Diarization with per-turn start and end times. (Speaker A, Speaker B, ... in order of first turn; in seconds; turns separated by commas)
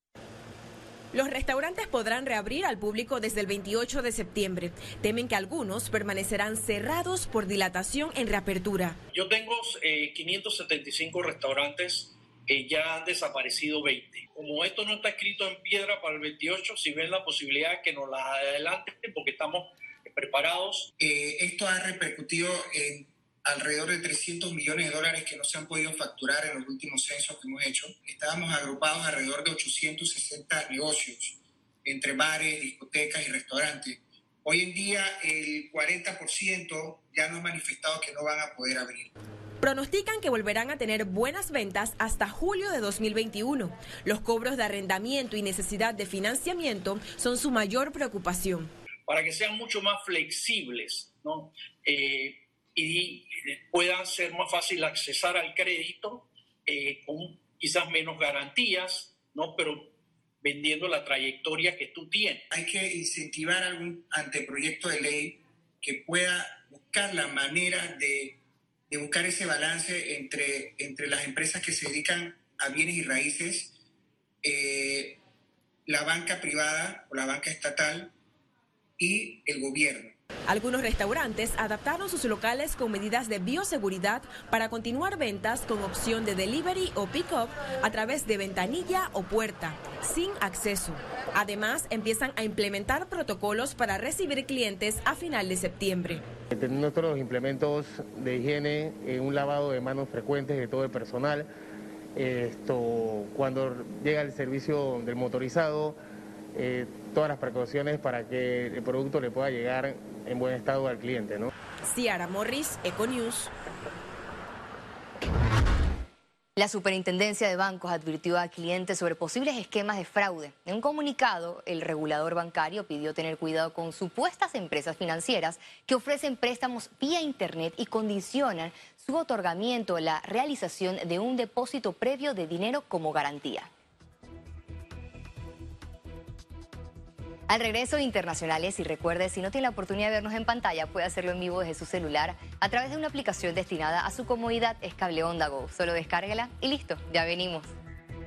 Speaker A: 1.1-9.0, Speaker B: 9.1-20.9, Speaker C: 21.0-39.1, Speaker A: 39.6-48.7, Speaker B: 49.1-62.4, Speaker C: 62.5-68.4, Speaker C: 68.9-73.7, Speaker C: 74.4-75.2, Speaker C: 75.9-78.1, Speaker C: 79.0-80.2, Speaker A: 80.5-96.2, Speaker D: 96.5-101.5, Speaker D: 102.2-106.0, Speaker D: 106.5-111.5, Speaker A: 111.9-113.5, Speaker E: 116.6-133.7, Speaker E: 137.5-147.7